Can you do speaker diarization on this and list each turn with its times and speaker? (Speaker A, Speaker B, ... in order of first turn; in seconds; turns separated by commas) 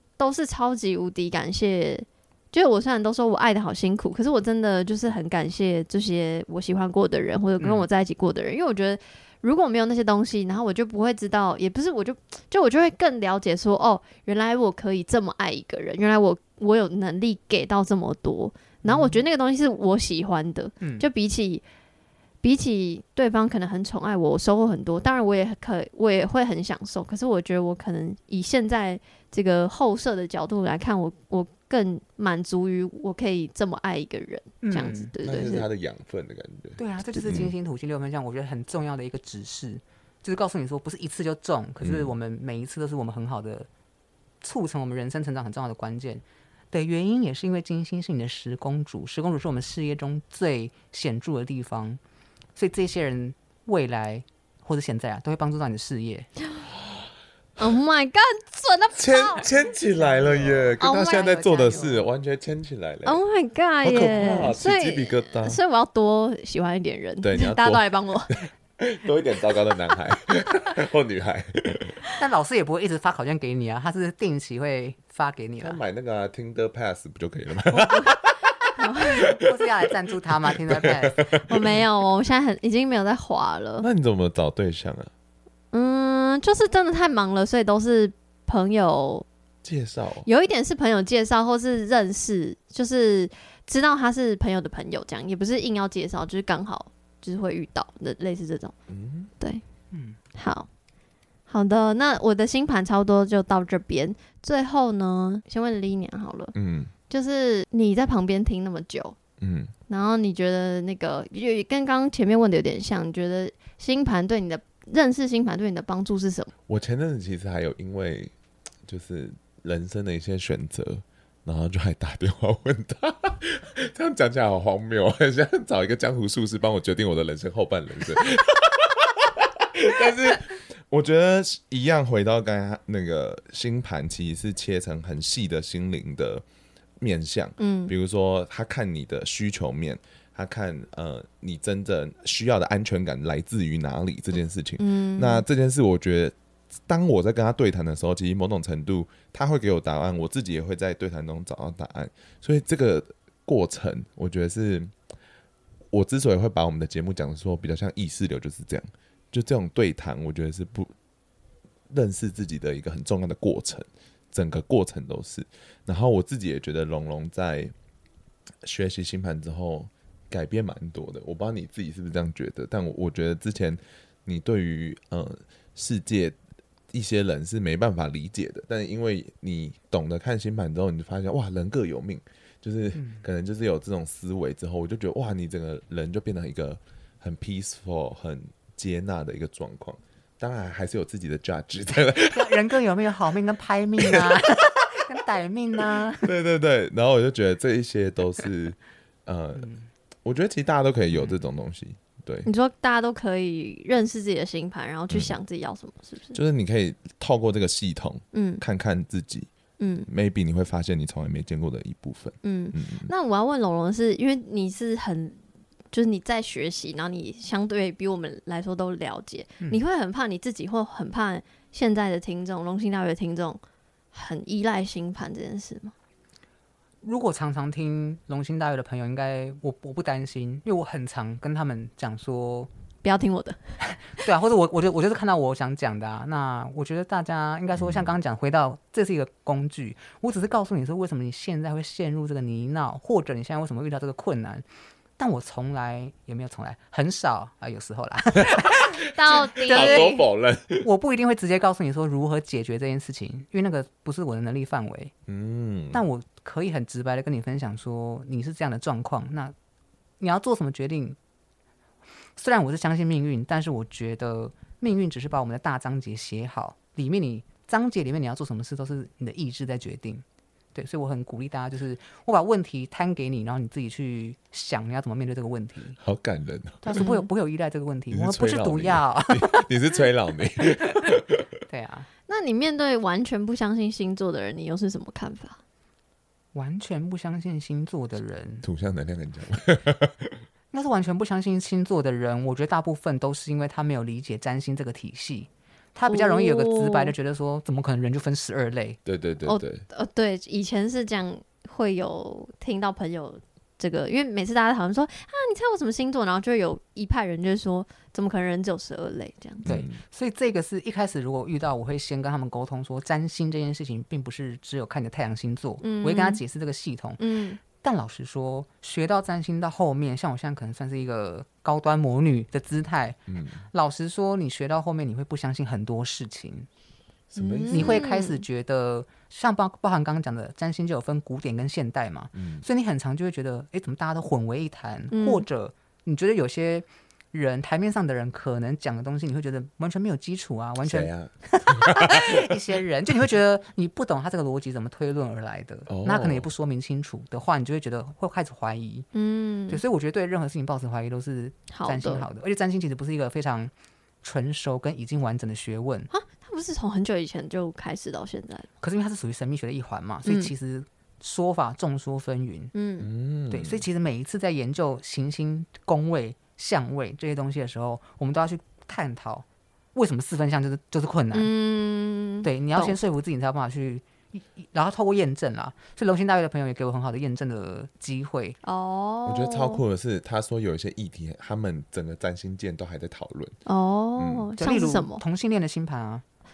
Speaker A: 0.2-21.6, Speaker B: 7.6-7.8, Speaker B: 18.8-19.2, Speaker B: 20.8-21.1, Speaker A: 22.4-35.7, Speaker B: 34.6-35.1, Speaker C: 35.2-37.5, Speaker B: 36.8-43.7, Speaker C: 41.8-42.1, Speaker B: 44.4-52.0, Speaker B: 52.5-56.3, Speaker A: 57.6-59.5, Speaker C: 59.0-63.2, Speaker B: 59.9-62.1, Speaker A: 60.8-61.3, Speaker A: 63.0-68.4, Speaker C: 63.8-65.6, Speaker C: 67.2-72.0, Speaker B: 72.2-75.8, Speaker C: 75.6-79.7, Speaker A: 77.9-78.2, Speaker A: 78.8-79.3, Speaker B: 79.1-81.3, Speaker C: 80.5-81.8, Speaker A: 81.4-83.9, Speaker C: 83.8-85.1, Speaker A: 85.7-89.3, Speaker C: 89.6-90.3, Speaker A: 90.3-98.7, Speaker C: 98.9-99.3, Speaker B: 99.9-100.2, Speaker A: 100.3-100.7, Speaker A: 101.5-106.5, Speaker C: 106.5-106.9, Speaker A: 107.1-109.2, Speaker C: 109.4-109.7, Speaker A: 109.9-116.5, Speaker C: 116.7-118.3, Speaker C: 118.9-136.4, Speaker C: 137.0-146.3, Speaker A: 137.6-137.9, Speaker A: 144.8-145.5, Speaker C: 146.9-154.9, Speaker C: 155.9-160.9, Speaker C: 161.9-167.7, Speaker C: 168.6-176.4, Speaker C: 176.9-192.6, Speaker B: 183.0-183.2, Speaker B: 192.3-196.3, Speaker C: 194.0-194.4, Speaker C: 195.9-199.7, Speaker B: 199.6-199.8, Speaker C: 200.2-202.5, Speaker A: 202.5-206.4, Speaker C: 206.3-209.5, Speaker A: 208.3-208.6, Speaker A: 209.8-210.1, Speaker C: 210.1-213.1, Speaker A: 212.4-215.4, Speaker A: 215.9-223.6, Speaker A: 224.1-225.9, Speaker B: 227.0-232.7, Speaker A: 233.0-233.6, Speaker B: 234.1-244.7, Speaker C: 237.8-238.1, Speaker B: 245.2-250.2, Speaker A: 249.1-250.2, Speaker C: 249.2-250.9, Speaker B: 250.8-255.1, Speaker C: 255.3-256.0, Speaker B: 255.9-259.5, Speaker B: 260.2-261.2, Speaker B: 262.4-270.2, Speaker B: 270.8-276.0, Speaker C: 276.0-277.0, Speaker B: 276.8-279.7, Speaker A: 277.0-277.3, Speaker C: 278.1-281.5, Speaker B: 281.7-282.1, Speaker A: 282.3-285.6, Speaker B: 286.6-288.7, Speaker C: 288.6-290.4, Speaker B: 290.7-299.0, Speaker A: 296.1-297.1, Speaker C: 299.1-299.9, Speaker A: 299.5-309.8, Speaker C: 309.7-310.0, Speaker B: 309.7-317.2, Speaker A: 315.8-316.4, Speaker A: 317.2-317.6, Speaker B: 317.7-323.2, Speaker C: 323.3-323.6, Speaker B: 323.7-326.7, Speaker C: 327.3-328.1, Speaker A: 327.4-328.4, Speaker B: 327.7-349.1, Speaker C: 332.4-332.6, Speaker A: 335.1-335.4, Speaker C: 340.8-342.4, Speaker C: 345.9-346.5, Speaker A: 349.1-349.8, Speaker B: 349.7-353.7, Speaker A: 351.7-352.3, Speaker B: 354.2-356.1, Speaker A: 356.1-358.7, Speaker B: 358.8-362.7, Speaker A: 360.3-360.5, Speaker A: 362.7-363.1, Speaker C: 363.0-363.9, Speaker B: 363.5-371.5, Speaker A: 371.3-373.0, Speaker B: 372.4-378.6, Speaker A: 378.6-379.8, Speaker C: 379.3-383.6, Speaker A: 383.7-385.2, Speaker C: 384.2-384.5, Speaker B: 384.6-386.2